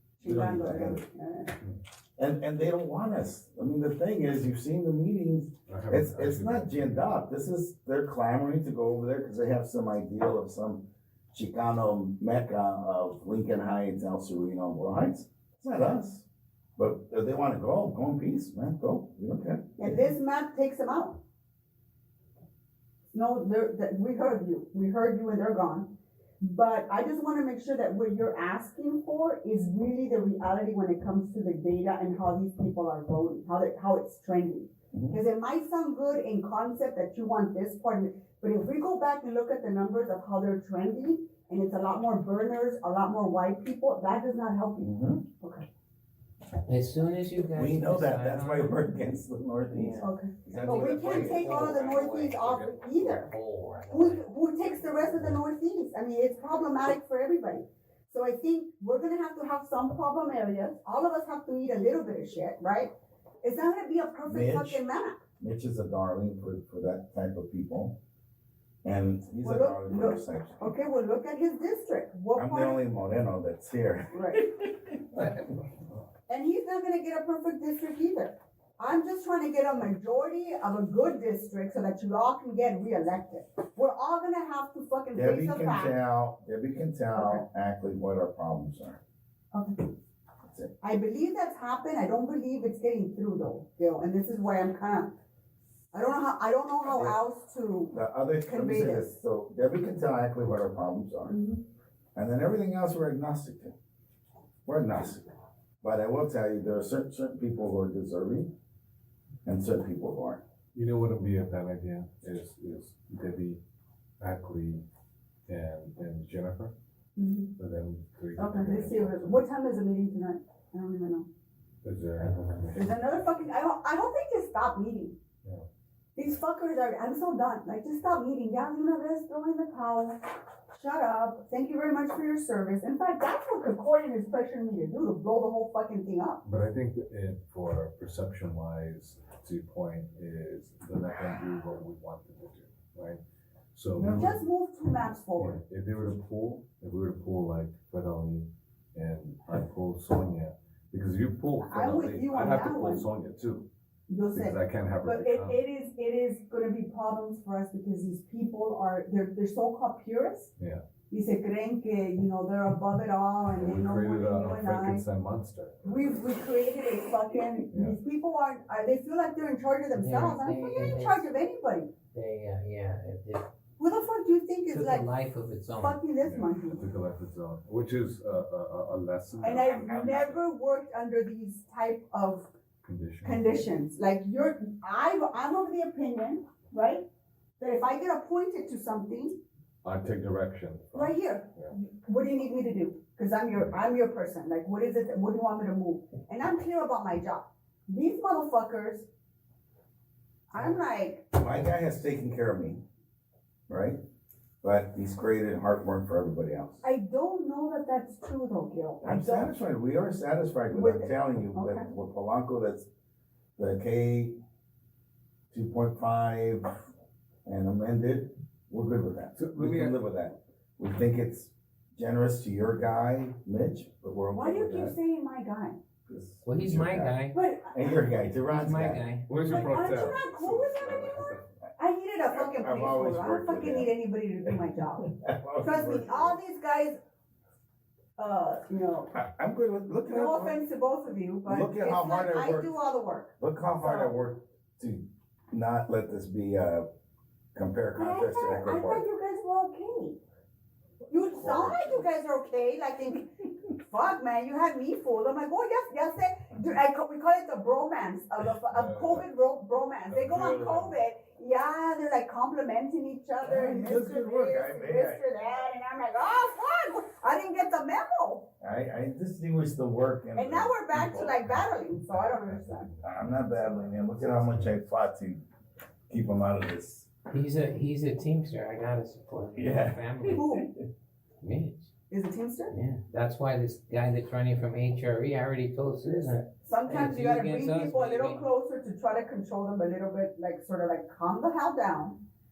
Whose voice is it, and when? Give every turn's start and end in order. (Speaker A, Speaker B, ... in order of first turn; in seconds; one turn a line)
Speaker A: 0.2-1.5
Speaker B: 0.2-1.0
Speaker B: 2.2-19.7
Speaker C: 5.7-7.2
Speaker A: 19.8-21.2
Speaker A: 23.1-44.9
Speaker B: 34.9-35.2
Speaker B: 44.8-45.2
Speaker A: 45.4-45.7
Speaker D: 46.6-49.1
Speaker B: 47.5-51.8
Speaker D: 49.7-54.2
Speaker A: 50.0-53.3
Speaker A: 53.9-65.2
Speaker B: 64.2-64.8
Speaker B: 65.4-68.0
Speaker B: 68.8-70.7
Speaker A: 69.4-72.8
Speaker B: 72.3-75.3
Speaker A: 74.1-74.5
Speaker A: 76.3-86.0
Speaker B: 85.1-89.0
Speaker A: 87.1-87.4
Speaker A: 89.5-89.9
Speaker B: 90.5-90.7
Speaker A: 90.8-95.1
Speaker A: 95.9-98.0
Speaker B: 96.9-97.2
Speaker B: 97.9-101.4
Speaker A: 98.5-99.1
Speaker A: 101.3-101.6
Speaker B: 102.2-103.7
Speaker B: 104.7-105.2
Speaker B: 105.8-108.5
Speaker B: 109.5-110.4
Speaker C: 110.7-113.6
Speaker C: 114.2-114.8
Speaker C: 115.5-116.7
Speaker A: 117.2-117.5
Speaker C: 117.6-119.4
Speaker A: 118.4-121.3
Speaker C: 121.8-123.0
Speaker A: 122.8-125.2
Speaker A: 126.2-130.2
Speaker A: 130.7-136.4
Speaker C: 136.4-143.2
Speaker C: 143.7-144.4
Speaker A: 144.0-145.6
Speaker C: 145.4-153.7
Speaker A: 151.6-153.1
Speaker A: 154.1-160.5
Speaker C: 154.3-155.6
Speaker C: 160.6-160.8
Speaker A: 161.1-165.1
Speaker C: 163.5-166.1
Speaker A: 165.8-171.9
Speaker C: 167.7-168.0
Speaker D: 169.9-171.3
Speaker D: 172.1-173.5
Speaker A: 173.8-175.1
Speaker D: 174.7-176.0
Speaker A: 175.8-176.8
Speaker C: 176.2-179.7
Speaker A: 179.4-182.5
Speaker B: 179.4-180.4
Speaker C: 182.8-183.7
Speaker A: 183.2-187.1
Speaker A: 187.6-189.4
Speaker C: 189.8-191.7
Speaker A: 190.9-199.1
Speaker A: 200.5-201.4
Speaker B: 201.4-202.8
Speaker B: 203.7-204.0
Speaker B: 204.6-206.8
Speaker A: 206.8-209.5
Speaker B: 209.0-212.9
Speaker A: 210.7-211.9
Speaker B: 213.6-214.4
Speaker B: 215.5-216.7
Speaker B: 217.5-224.9
Speaker C: 219.4-220.0
Speaker A: 224.3-225.8
Speaker B: 226.1-227.1
Speaker D: 226.4-227.4
Speaker A: 227.3-228.1
Speaker B: 227.7-229.1
Speaker D: 228.5-229.5
Speaker C: 229.3-231.3
Speaker A: 229.4-235.1
Speaker B: 232.3-233.9
Speaker B: 235.0-236.4
Speaker A: 235.6-237.0
Speaker A: 238.2-239.1
Speaker B: 239.1-240.6
Speaker A: 240.1-244.2
Speaker B: 241.5-242.7
Speaker B: 243.4-246.9
Speaker B: 247.6-249.1
Speaker A: 248.0-250.2
Speaker A: 251.1-268.5
Speaker B: 251.4-251.9
Speaker C: 258.7-259.3
Speaker C: 260.1-261.0
Speaker B: 263.4-265.2
Speaker B: 268.6-271.4
Speaker A: 270.4-272.9
Speaker C: 271.5-274.7
Speaker B: 273.0-275.4
Speaker B: 276.1-277.1
Speaker D: 277.3-280.5
Speaker B: 279.6-280.7
Speaker A: 280.3-280.7
Speaker D: 281.4-281.9
Speaker A: 282.1-282.7
Speaker D: 282.7-288.4
Speaker A: 286.6-292.2